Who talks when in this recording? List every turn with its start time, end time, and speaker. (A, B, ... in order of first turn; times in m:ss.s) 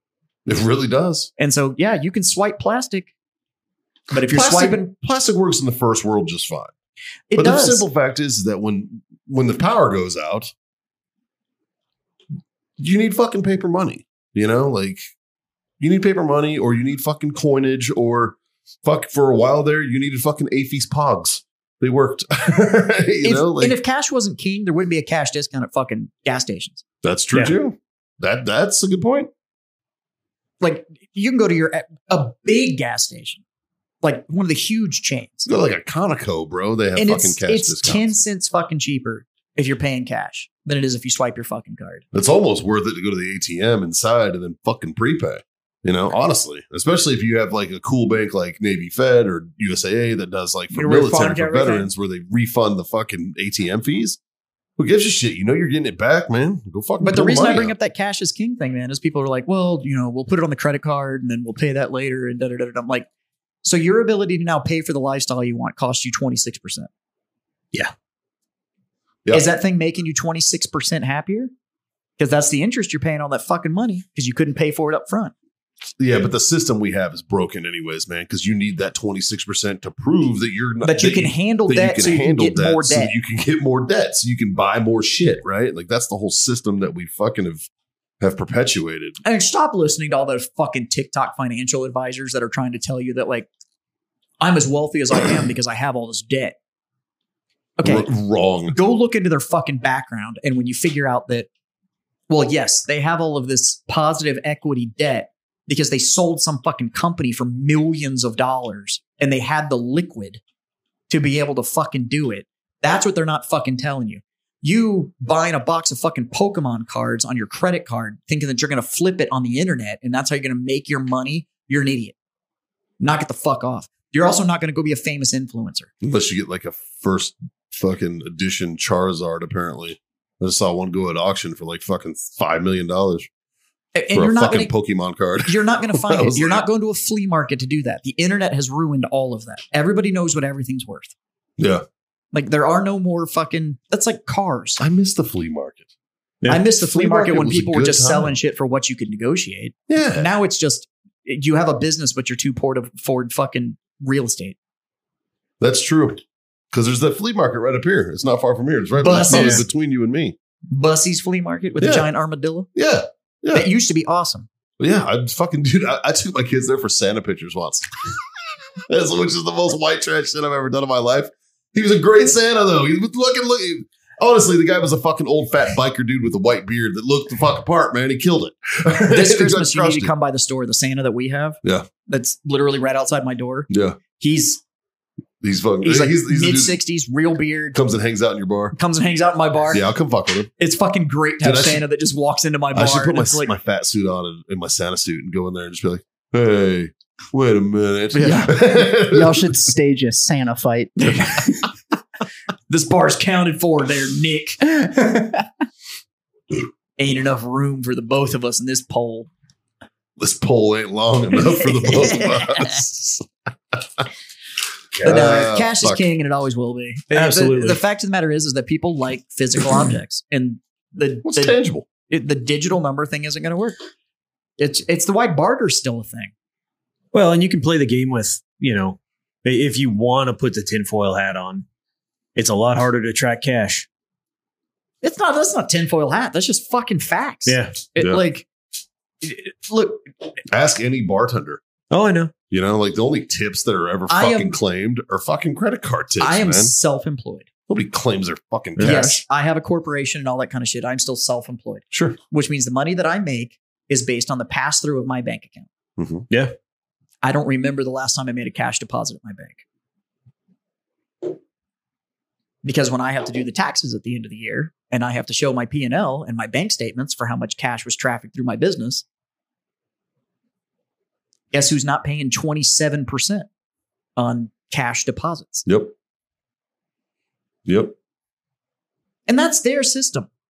0:00.4-0:01.3 A
0:01.4-0:03.1 B
0:04.1-0:04.9 B
0:04.2-0:06.7 A
0:07.3-0:07.8 B
0:07.3-0:10.5 A
0:12.8-0:15.0 A
0:15.8-0:23.8 A
0:23.2-0:26.8 B
0:27.0-0:29.3 A
0:30.6-0:33.4 B
0:34.0-0:35.5 B
0:35.5-0:38.0 A
0:37.0-0:42.0 B
0:42.1-0:54.2 A
0:50.7-0:51.9 B
0:54.8-0:57.7 A
0:57.0-1:03.1 B
1:03.6-1:06.9 B
1:09.3-1:11.5 B
1:12.2-1:15.3 B
1:16.0-1:27.7 A
1:20.8-1:23.1 B
1:28.2-1:29.2 A
1:29.2-1:33.5 B
1:34.4-1:36.6 B
1:37.8-1:38.1 B
1:37.8-1:38.8 A
1:38.7-1:41.5 B
1:42.3-1:50.4 B
1:51.1-2:02.1 B
2:03.0-2:05.9 B
2:06.0-2:13.3 A
2:13.9-2:14.7 B
2:14.1-2:16.6 A
2:15.4-2:21.1 B
2:21.6-2:21.8 A
2:22.3-2:24.8 B
2:24.8-2:25.8 A
2:26.5-2:28.4 A
2:26.5-2:34.6 B
2:29.9-2:30.3 A
2:35.6-2:36.2 A
2:36.7-2:40.4 A
2:39.0-2:39.6 B
2:40.7-2:42.7 B
2:41.8-2:42.1 A
2:42.7-2:43.7 A
2:43.5-2:44.5 B
2:44.8-2:47.9 A
2:48.9-3:00.1 A
2:59.1-3:04.6 B
3:03.7-3:04.0 A
3:05.4-3:06.8 A
3:05.8-3:07.8 B
3:07.7-3:08.8 A
3:08.7-3:09.8 B
3:09.7-3:10.5 A
3:10.6-3:13.5 B
3:11.4-3:11.8 A
3:12.7-3:19.5 A
3:18.1-3:18.6 B
3:19.0-3:21.0 C
3:21.0-3:21.7 B
3:22.7-3:25.3 B
3:27.0-3:29.3 B
3:30.2-3:33.2 A
3:31.7-3:32.9 B
3:34.9-3:36.0 A
3:35.0-3:43.8 B
3:37.1-3:37.8 D
3:41.2-3:41.9 A
3:44.6-3:46.3 B
3:47.1-3:51.6 D
3:52.4-3:53.9 D
3:55.0-3:58.5 B
3:57.5-3:57.8 D
3:58.0-3:58.2 A
3:59.2-4:00.1 B
4:00.5-4:01.6 A
4:01.9-4:02.3 D
4:02.5-4:06.7 A
4:04.1-4:04.6 B
4:06.2-4:07.5 B
4:07.7-4:09.2 A
4:08.8-4:09.2 D
4:08.8-4:15.7 B
4:16.0-4:16.3 A
4:17.2-4:19.6 B
4:22.6-4:29.0 B
4:31.5-4:33.5 B
4:34.2-4:35.6 B
4:35.6-4:35.9 A
4:37.6-4:37.9 A
4:39.3-4:40.3 B